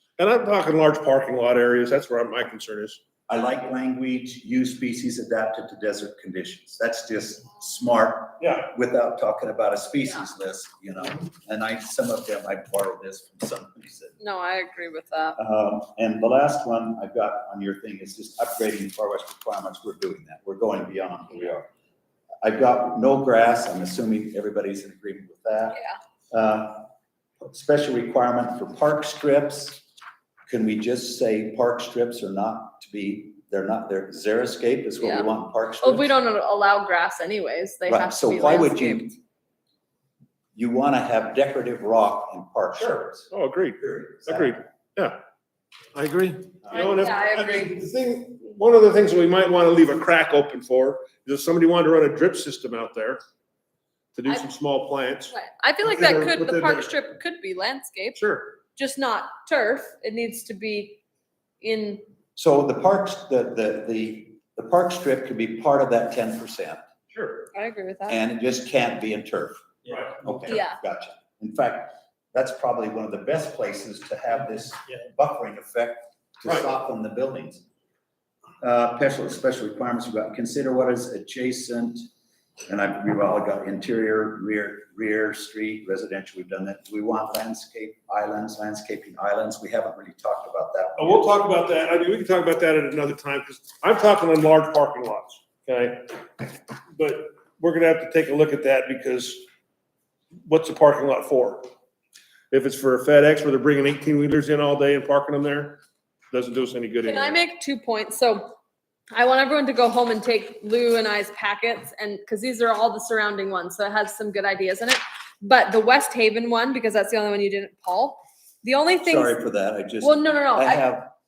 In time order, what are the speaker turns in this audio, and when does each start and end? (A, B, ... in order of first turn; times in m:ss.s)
0:00.2-0:03.0 A
0:03.3-0:14.2 B
0:08.4-0:08.6 A
0:14.2-0:15.4 C
0:15.4-0:21.7 B
0:22.4-0:25.8 B
0:26.3-0:26.9 B
0:27.4-0:29.8 B
0:30.5-0:36.1 B
0:35.0-0:35.3 C
0:35.8-0:39.2 C
0:37.9-0:39.1 B
0:40.5-0:44.6 B
0:42.8-0:45.2 A
0:45.9-0:53.2 A
0:46.7-0:47.7 C
0:54.1-0:56.9 A
0:55.3-1:01.0 C
0:58.2-0:58.4 A
1:01.6-1:02.0 C
1:02.4-1:06.8 B
1:07.1-1:07.5 A
1:07.5-1:08.2 C
1:08.1-1:17.6 B
1:10.5-1:10.8 C
1:18.6-1:22.0 B
1:22.7-1:31.4 B
1:31.0-1:39.4 A
1:40.4-1:41.7 A
1:42.5-1:47.4 A
1:47.0-1:48.5 C
1:49.1-1:59.4 C
1:59.0-2:01.1 B
2:00.0-2:00.9 C